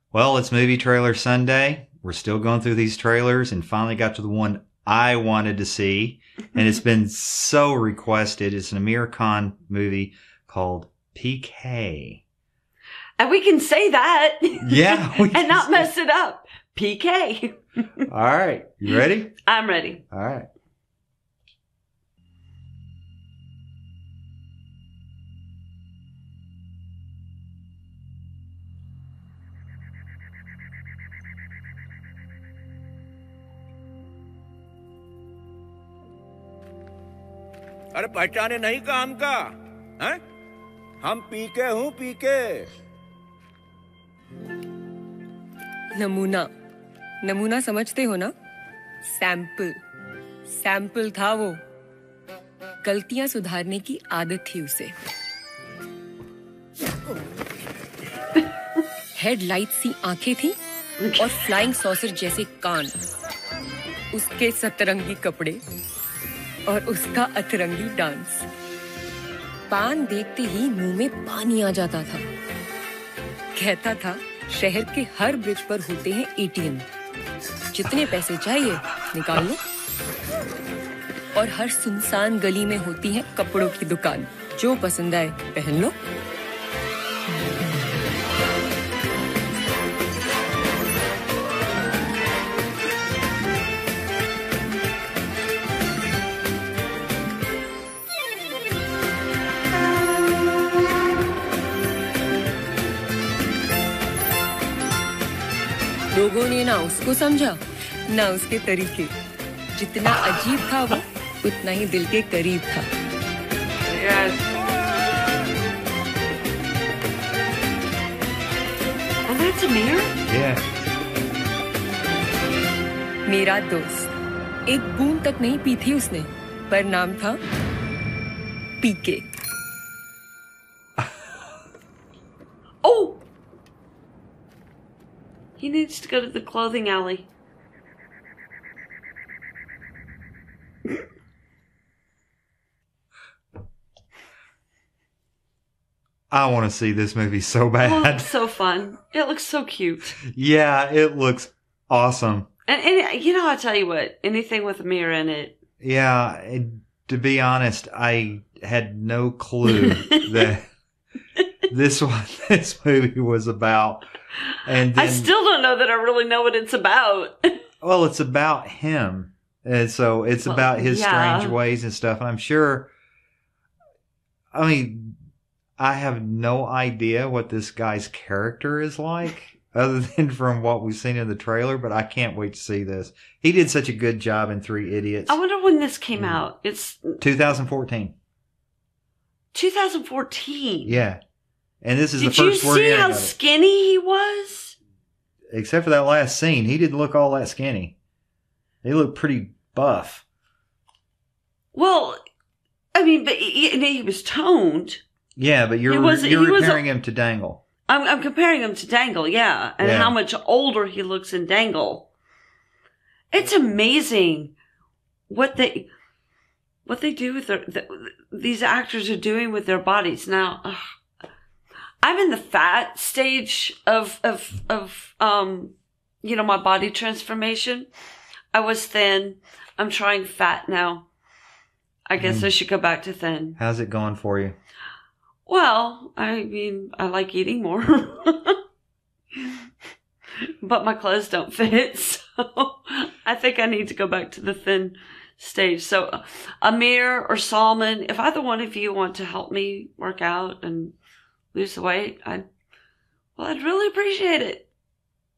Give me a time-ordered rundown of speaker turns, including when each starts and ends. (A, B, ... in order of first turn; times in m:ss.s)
0:00.1-0:12.2 A
0:13.2-0:18.1 B
0:14.6-0:15.9 A
0:18.1-0:19.4 A
0:19.5-0:20.0 B
0:20.1-0:20.5 A
0:38.0-0:40.2 C
0:41.0-0:42.7 C
0:46.0-0:46.5 D
0:47.2-0:48.3 D
0:49.1-0:49.7 D
0:50.5-0:51.6 D
0:52.8-0:54.9 D
0:59.2-1:00.6 D
1:01.0-1:01.5 B
1:01.2-1:02.9 D
1:04.1-1:05.6 D
1:06.7-1:08.5 D
1:09.7-1:12.2 D
1:13.6-1:16.8 D
1:17.7-1:19.6 D
1:21.4-1:25.9 D
1:46.1-1:47.6 D
1:48.1-1:49.1 D
1:49.8-1:52.8 D
1:53.9-1:54.5 B
1:59.3-2:00.2 B
2:00.3-2:00.6 A
2:03.3-2:04.1 D
2:04.7-2:07.4 D
2:08.8-2:09.2 D
2:12.8-2:13.2 B
2:15.6-2:17.3 B
2:26.3-2:28.3 A
2:27.8-2:30.2 B
2:30.2-2:32.5 A
2:32.7-2:35.6 B
2:35.8-2:40.7 A
2:39.7-2:40.5 B
2:41.7-2:44.1 A
2:44.6-2:45.3 A
2:44.9-2:47.6 B
2:47.8-2:52.9 A
2:50.4-2:51.6 B
2:54.5-2:55.2 A
2:55.8-3:05.4 A
3:05.3-3:07.2 B
3:06.2-3:06.4 A
3:07.2-3:08.2 A
3:09.5-3:11.0 B
3:10.9-3:11.2 A
3:11.8-3:13.3 A
3:12.2-3:14.8 B
3:15.5-3:18.0 A
3:18.8-3:20.2 A
3:21.7-3:22.2 B
3:23.0-3:25.0 B
3:25.4-3:27.6 A
3:25.9-3:26.9 B
3:27.9-3:32.1 B
3:29.8-3:30.2 A
3:33.3-3:34.5 B
3:35.3-3:35.9 B
3:36.9-3:40.8 B
3:42.0-3:47.9 B
3:48.5-3:51.1 B
3:52.1-3:53.6 B
3:52.2-3:52.5 A
3:53.6-3:54.6 A
3:55.5-3:58.6 B
4:00.6-4:11.0 B
4:11.5-4:12.5 B
4:13.4-4:14.7 B